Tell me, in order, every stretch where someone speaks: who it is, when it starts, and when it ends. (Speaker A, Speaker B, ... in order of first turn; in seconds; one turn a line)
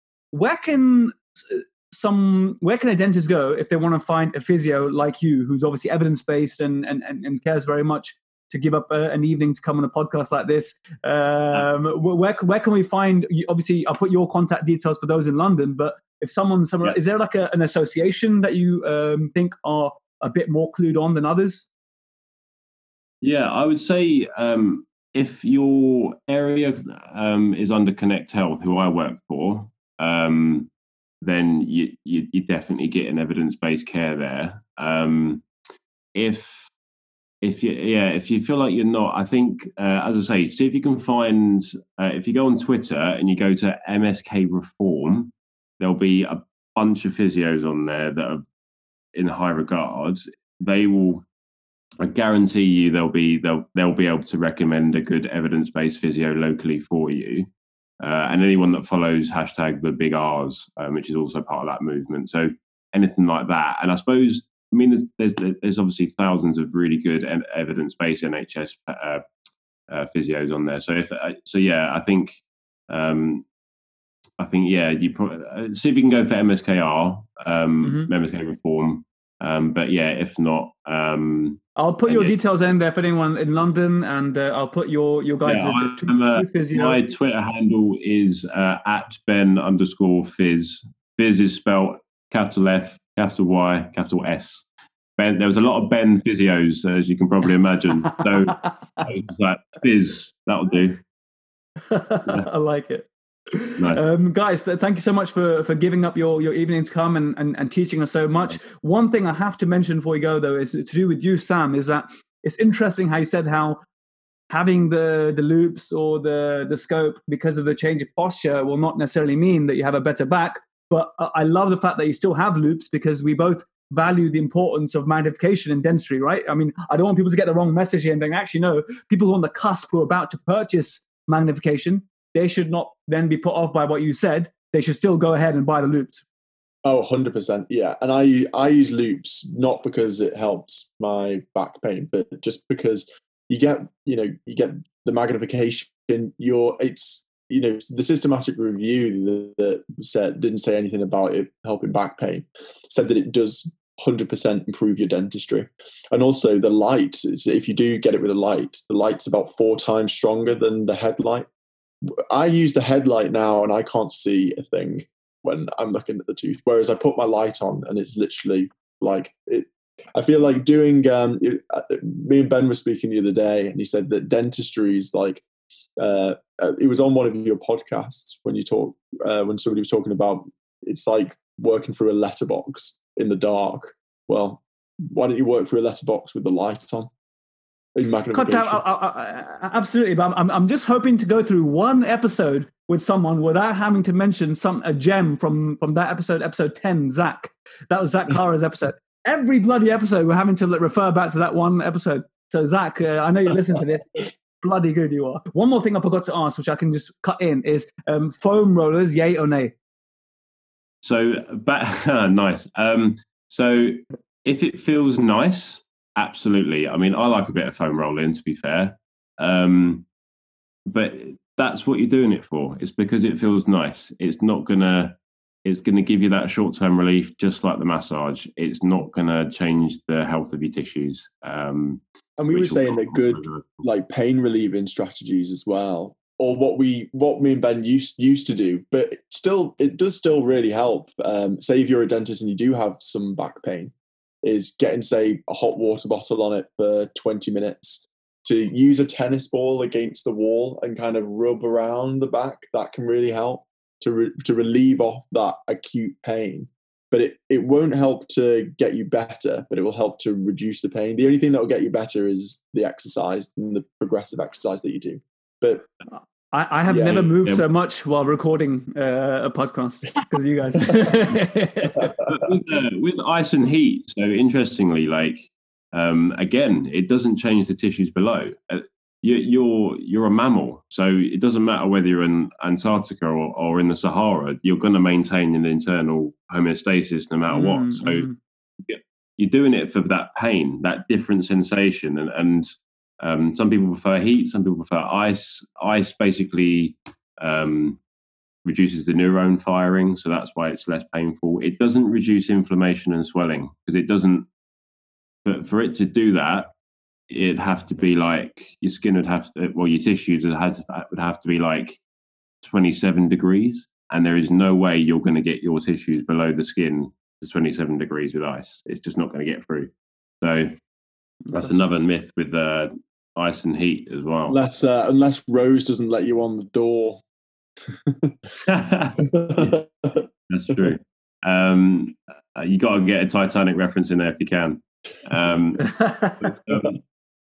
Speaker A: 0.3-21.7
Speaker B: 23.2-30.7
Speaker B: 31.2-35.4
Speaker B: 36.1-36.7
Speaker B: 37.4-48.4
Speaker B: 49.1-51.2
Speaker B: 52.0-57.5
Speaker B: 58.0-69.2
Speaker B: 69.9-73.4
Speaker B: 74.4-82.3
Speaker A: 77.8-78.1
Speaker A: 81.8-87.0
Speaker B: 85.5-94.6
Speaker B: 95.2-101.0
Speaker A: 98.5-98.7
Speaker A: 101.8-113.8
Speaker B: 103.8-104.0
Speaker A: 114.5-136.2
Speaker C: 136.8-161.4
Speaker C: 162.3-175.4
Speaker C: 176.0-187.1
Speaker C: 187.9-188.8
Speaker A: 188.3-209.7
Speaker B: 211.0-220.1
Speaker B: 220.9-232.0
Speaker C: 232.4-243.9
Speaker B: 232.5-233.9
Speaker C: 244.4-265.9
Speaker A: 266.5-272.1
Speaker C: 266.9-267.3
Speaker B: 272.2-288.3
Speaker A: 287.5-288.4
Speaker B: 288.8-298.0
Speaker B: 298.6-304.4
Speaker B: 305.4-306.7
Speaker B: 307.3-312.0
Speaker B: 312.6-319.9
Speaker B: 320.4-320.7
Speaker A: 321.4-321.7
Speaker B: 321.5-324.6
Speaker C: 324.5-327.2
Speaker C: 328.0-328.4
Speaker B: 328.6-329.8
Speaker C: 329.3-330.2
Speaker B: 330.5-337.0
Speaker A: 335.8-336.4